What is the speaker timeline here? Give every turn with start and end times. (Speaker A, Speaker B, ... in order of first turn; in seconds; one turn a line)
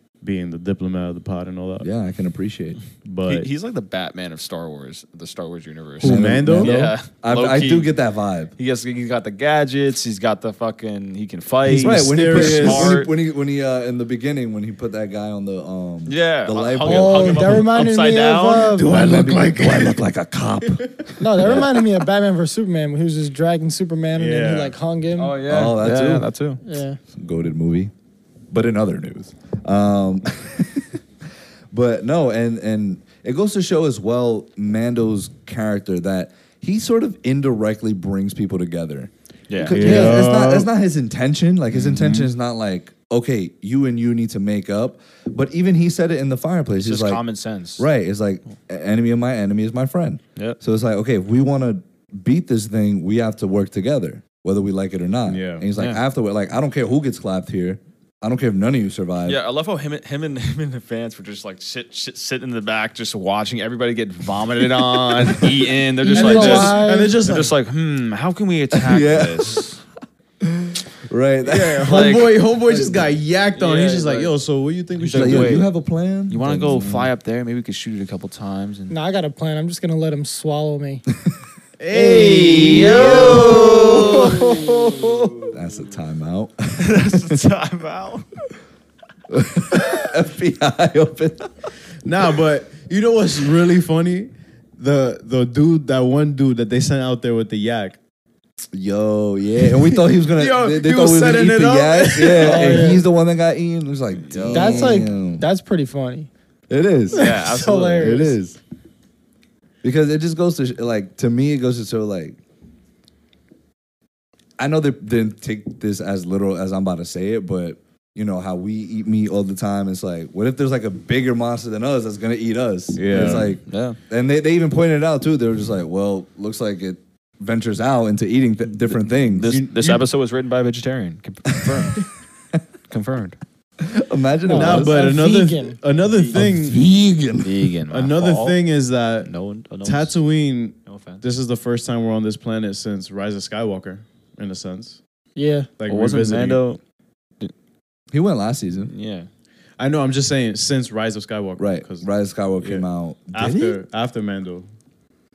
Speaker A: 0.2-1.9
Speaker B: 1.8-2.8
Speaker A: 3.0-3.5
Speaker C: 3.2-7.9
Speaker A: 6.0-6.9
Speaker B: 6.0-8.5
Speaker C: 8.6-13.1
Speaker B: 11.7-17.5
Speaker A: 11.7-13.0
Speaker C: 16.1-18.9
Speaker D: 16.8-18.9
Speaker A: 16.9-17.6
Speaker A: 18.8-20.0
Speaker B: 18.8-21.7
Speaker D: 21.2-25.4
Speaker C: 21.4-21.7
Speaker A: 24.1-24.8
Speaker C: 25.2-26.6
Speaker B: 25.4-26.3
Speaker D: 26.6-27.0
Speaker B: 27.1-27.9
Speaker B: 28.5-31.0
Speaker B: 31.7-47.2
Speaker C: 39.5-40.2
Speaker A: 39.7-40.7
Speaker D: 39.9-40.1
Speaker A: 41.8-42.2
Speaker C: 46.8-47.9
Speaker B: 47.8-59.4
Speaker A: 55.3-55.7
Speaker C: 59.2-69.8
Speaker B: 65.2-65.6
Speaker D: 66.0-67.2
Speaker A: 66.1-67.5
Speaker B: 68.7-69.7
Speaker B: 70.4-72.0
Speaker A: 71.4-75.6
Speaker C: 71.8-72.4
Speaker B: 72.7-73.1
Speaker C: 73.5-74.3
Speaker C: 75.0-75.7
Speaker B: 75.1-77.1
Speaker C: 76.3-78.9
Speaker D: 78.9-81.0
Speaker A: 81.8-85.3
Speaker D: 81.9-82.7
Speaker B: 82.2-87.4
Speaker C: 82.4-85.3
Speaker C: 86.8-88.2
Speaker B: 89.3-91.5
Speaker A: 92.0-98.0
Speaker B: 98.7-105.5
Speaker A: 99.7-103.0
Speaker D: 102.4-103.0
Speaker C: 104.2-105.0
Speaker D: 104.5-106.3
Speaker B: 106.7-107.3
Speaker C: 107.1-108.2
Speaker D: 107.1-108.4
Speaker B: 107.9-108.6
Speaker B: 109.8-112.4
Speaker B: 114.6-129.5
Speaker A: 122.9-123.6
Speaker C: 123.1-124.0
Speaker C: 129.3-132.1
Speaker A: 129.4-130.0
Speaker B: 131.6-131.9
Speaker C: 132.9-133.4
Speaker B: 133.8-135.0
Speaker D: 134.4-135.8
Speaker A: 134.5-136.8
Speaker B: 136.3-137.7
Speaker C: 137.4-138.6
Speaker A: 137.9-139.3
Speaker C: 139.2-140.1
Speaker A: 139.8-145.0
Speaker C: 140.8-141.2
Speaker D: 145.3-145.7
Speaker A: 145.8-146.6
Speaker C: 145.9-146.8
Speaker B: 148.1-148.9
Speaker C: 148.9-149.3
Speaker A: 149.8-152.1
Speaker B: 151.6-153.8
Speaker A: 152.6-154.7